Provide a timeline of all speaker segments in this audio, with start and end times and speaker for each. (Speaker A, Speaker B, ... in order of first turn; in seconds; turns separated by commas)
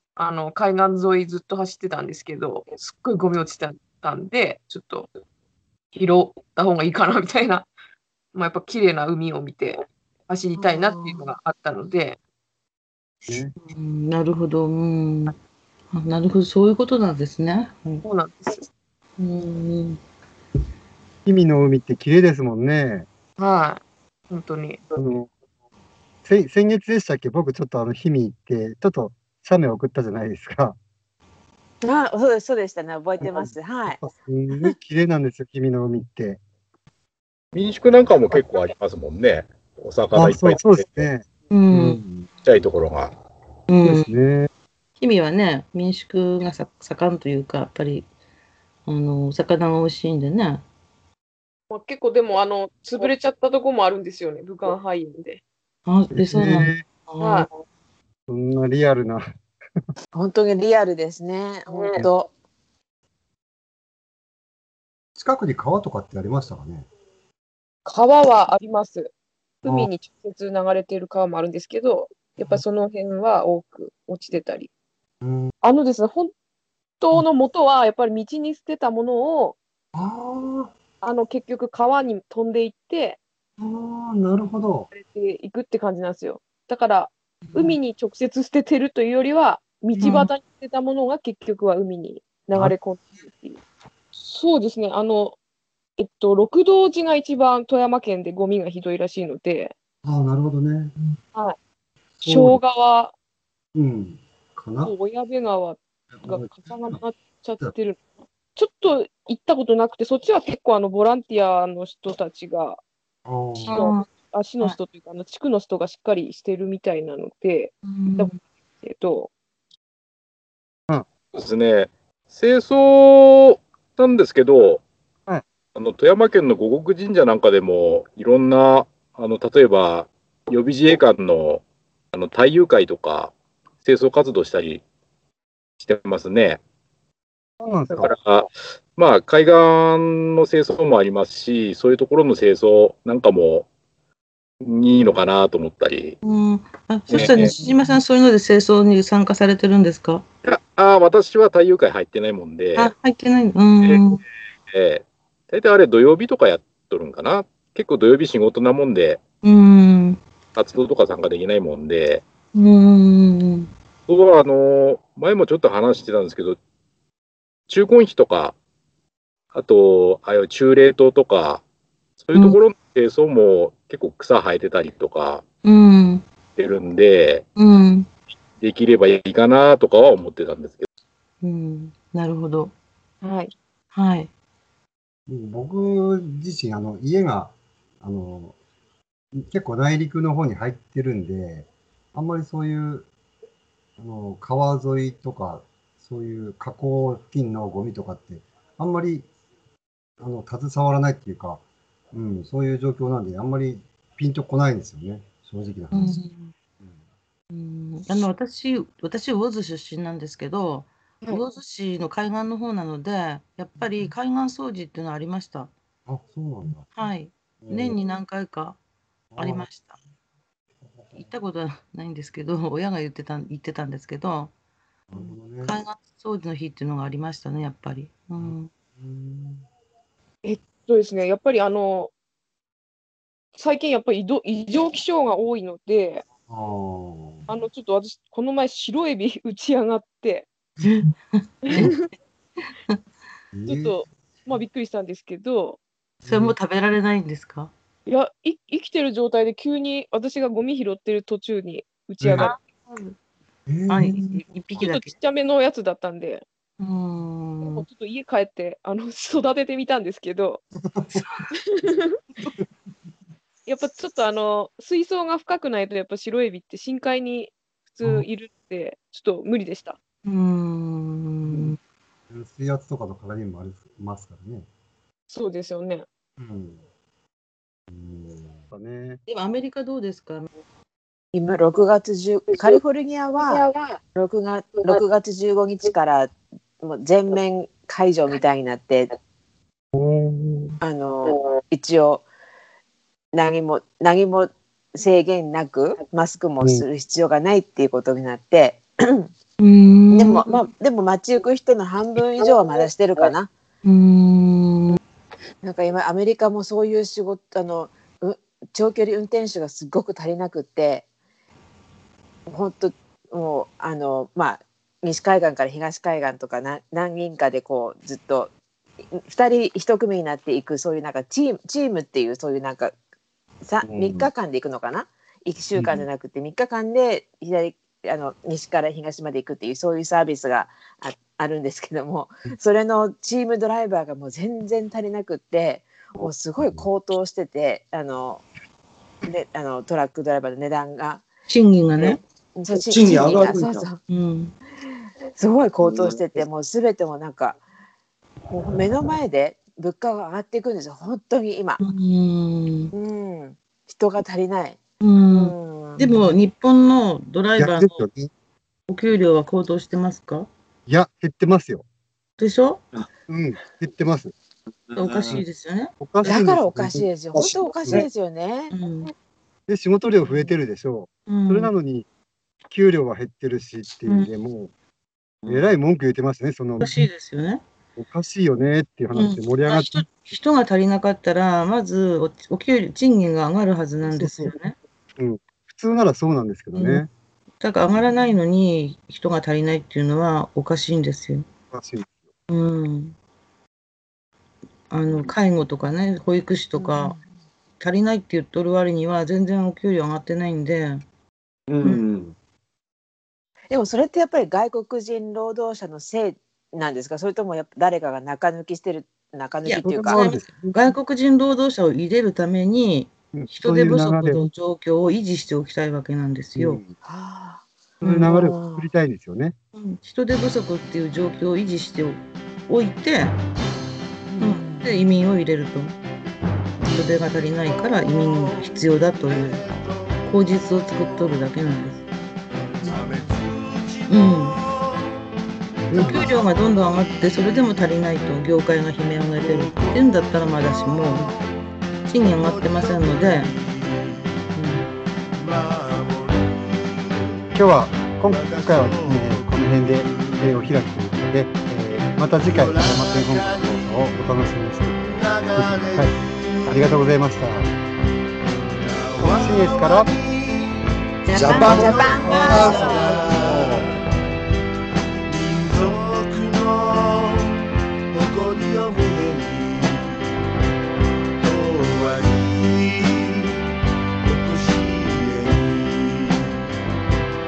Speaker A: 0.1-5.1, Speaker A: 5.9-7.7, Speaker A: 8.3-12.2, Speaker B: 13.3-13.5, Speaker C: 13.6-15.3, Speaker C: 15.9-18.0, Speaker A: 18.0-18.6, Speaker C: 19.2-20.0, Speaker B: 21.2-23.1, Speaker A: 23.4-24.8, Speaker B: 24.9-25.3, Speaker B: 26.2-30.8, Speaker D: 31.8-34.0, Speaker B: 33.2-36.4, Speaker E: 37.5-41.1, Speaker B: 40.1-42.3, Speaker C: 41.5-42.0, Speaker E: 42.4-43.1, Speaker C: 43.7-44.1, Speaker B: 43.8-44.5, Speaker C: 45.0-48.1, Speaker C: 48.8-50.6, Speaker A: 51.7-55.4, Speaker C: 55.9-57.5, Speaker B: 56.1-56.8, Speaker A: 57.2-57.5, Speaker B: 58.3-59.2, Speaker D: 60.1-62.3, Speaker A: 61.7-62.0, Speaker B: 65.2-66.9, Speaker A: 67.8-74.7, Speaker B: 69.7-69.9, Speaker B: 75.2-75.5, Speaker A: 75.6-76.3, Speaker A: 77.0-79.6, Speaker B: 79.9-80.7, Speaker A: 81.0-83.2, Speaker B: 83.6-84.9, Speaker A: 84.9-93.6, Speaker C: 90.0-90.3, Speaker A: 94.1-95.4, Speaker A: 96.0-99.7, Speaker B: 100.0-100.9, Speaker B: 102.2-102.6, Speaker A: 102.2-103.1, Speaker B: 103.7-104.9, Speaker A: 104.8-112.8, Speaker B: 106.1-107.0, Speaker B: 113.2-113.9, Speaker C: 113.7-114.1, Speaker A: 113.7-119.3, Speaker C: 117.8-118.4, Speaker E: 121.3-124.8, Speaker E: 125.7-134.8, Speaker E: 135.8-136.6, Speaker B: 137.6-138.0, Speaker E: 138.0-143.7, Speaker E: 144.6-146.2, Speaker C: 146.2-150.2, Speaker E: 147.1-147.5, Speaker B: 147.1-147.4, Speaker E: 150.4-152.9, Speaker C: 152.8-154.2, Speaker E: 154.7-159.2, Speaker C: 159.4-160.2, Speaker E: 160.5-162.2, Speaker C: 162.5-163.7, Speaker E: 164.1-166.6, Speaker E: 167.7-168.5, Speaker E: 169.5-171.6, Speaker E: 172.2-175.4, Speaker C: 175.6-176.2, Speaker E: 176.6-177.4, Speaker C: 177.5-178.1, Speaker E: 178.6-180.9, Speaker C: 181.4-182.7, Speaker A: 183.2-183.5, Speaker C: 183.9-184.3, Speaker B: 185.3-188.6, Speaker B: 189.4-193.1, Speaker B: 194.0-199.3, Speaker B: 200.2-206.2, Speaker C: 205.9-206.5, Speaker C: 207.5-215.7, Speaker B: 216.1-216.8, Speaker C: 216.9-218.8, Speaker B: 217.6-218.0, Speaker B: 219.3-219.7, Speaker C: 219.4-220.0, Speaker B: 220.9-221.2, Speaker C: 221.2-224.5, Speaker B: 225.1-225.7, Speaker C: 225.1-228.7, Speaker B: 228.4-229.6, Speaker A: 230.4-232.1, Speaker A: 233.5-236.2, Speaker B: 236.5-237.5, Speaker A: 237.5-240.5, Speaker C: 240.8-241.9, Speaker A: 241.6-242.1, Speaker C: 242.6-243.0, Speaker B: 243.5-244.0, Speaker A: 243.7-245.8, Speaker B: 246.2-246.5, Speaker C: 246.2-247.7, Speaker A: 248.1-252.5, Speaker B: 252.2-252.5, Speaker C: 252.3-253.2, Speaker B: 253.7-254.2, Speaker C: 253.9-255.1, Speaker A: 254.7-256.4, Speaker C: 256.8-257.8, Speaker A: 257.6-260.6, Speaker B: 260.8-261.2, Speaker C: 261.1-261.4, Speaker A: 261.5-262.2, Speaker A: 263.6-270.0, Speaker C: 270.2-271.8, Speaker B: 272.3-274.7, Speaker A: 275.3-276.1, Speaker B: 276.4-276.8, Speaker B: 277.9-279.2, Speaker C: 279.3-280.5, Speaker D: 281.3-289.1, Speaker B: 289.9-290.7, Speaker D: 290.8-292.2, Speaker D: 293.3-299.3, Speaker C: 299.6-300.6, Speaker D: 300.1-303.5, Speaker C: 303.8-305.0, Speaker D: 305.6-311.0, Speaker D: 312.5-318.5, Speaker D: 319.1-322.9, Speaker D: 323.6-338.4, Speaker B: 323.8-324.3, Speaker B: 325.8-326.0, Speaker D: 339.2-341.2, Speaker C: 341.5-342.2, Speaker D: 342.5-344.0, Speaker F: 342.8-343.9, Speaker C: 344.1-344.5, Speaker D: 345.3-347.6, Speaker F: 345.8-346.1, Speaker D: 348.5-351.8, Speaker C: 351.8-352.9, Speaker D: 352.9-356.1, Speaker C: 355.0-358.1, Speaker B: 357.6-358.3, Speaker C: 358.9-360.5, Speaker B: 360.9-361.8, Speaker C: 362.4-362.8, Speaker B: 363.3-364.3, Speaker C: 364.9-366.4, Speaker B: 366.0-367.1, Speaker D: 366.2-368.7, Speaker F: 367.3-368.1, Speaker C: 368.7-369.1, Speaker B: 369.7-372.1, Speaker C: 371.3-371.7, Speaker B: 372.6-374.7, Speaker C: 374.1-374.3, Speaker F: 375.4-375.7, Speaker B: 375.5-376.9, Speaker C: 376.8-377.6, Speaker B: 378.0-379.9, Speaker C: 379.1-384.8, Speaker B: 384.0-384.5, Speaker B: 385.2-387.1, Speaker C: 386.7-387.0, Speaker C: 387.6-391.4, Speaker B: 391.7-392.3, Speaker C: 392.5-393.1, Speaker C: 394.9-397.1, Speaker D: 396.7-397.2, Speaker C: 397.8-401.0, Speaker F: 401.7-402.3, Speaker D: 403.7-410.2, Speaker C: 409.6-416.8, Speaker B: 409.8-410.8, Speaker B: 413.3-414.4, Speaker B: 416.6-416.9, Speaker D: 417.0-418.9, Speaker C: 418.0-418.4, Speaker B: 418.1-419.5, Speaker C: 419.8-423.4, Speaker C: 424.4-426.0, Speaker D: 424.4-425.0, Speaker C: 426.8-429.6, Speaker G: 427.7-430.2, Speaker C: 430.2-432.1, Speaker G: 430.9-431.4, Speaker G: 432.8-435.3, Speaker C: 434.1-434.6, Speaker B: 435.9-436.2, Speaker C: 435.9-441.3, Speaker G: 435.9-437.6, Speaker G: 439.4-441.6, Speaker C: 442.1-443.5, Speaker G: 442.2-444.4, Speaker C: 444.5-444.9, Speaker G: 445.3-447.5, Speaker B: 447.5-456.1, Speaker G: 448.1-450.7, Speaker G: 452.3-454.1, Speaker G: 455.0-457.0, Speaker B: 456.6-457.7, Speaker G: 458.7-464.0, Speaker B: 459.3-460.1, Speaker C: 461.2-462.6, Speaker F: 461.4-462.7, Speaker D: 461.6-463.4, Speaker G: 465.2-470.3, Speaker G: 471.4-473.6, Speaker G: 474.2-476.7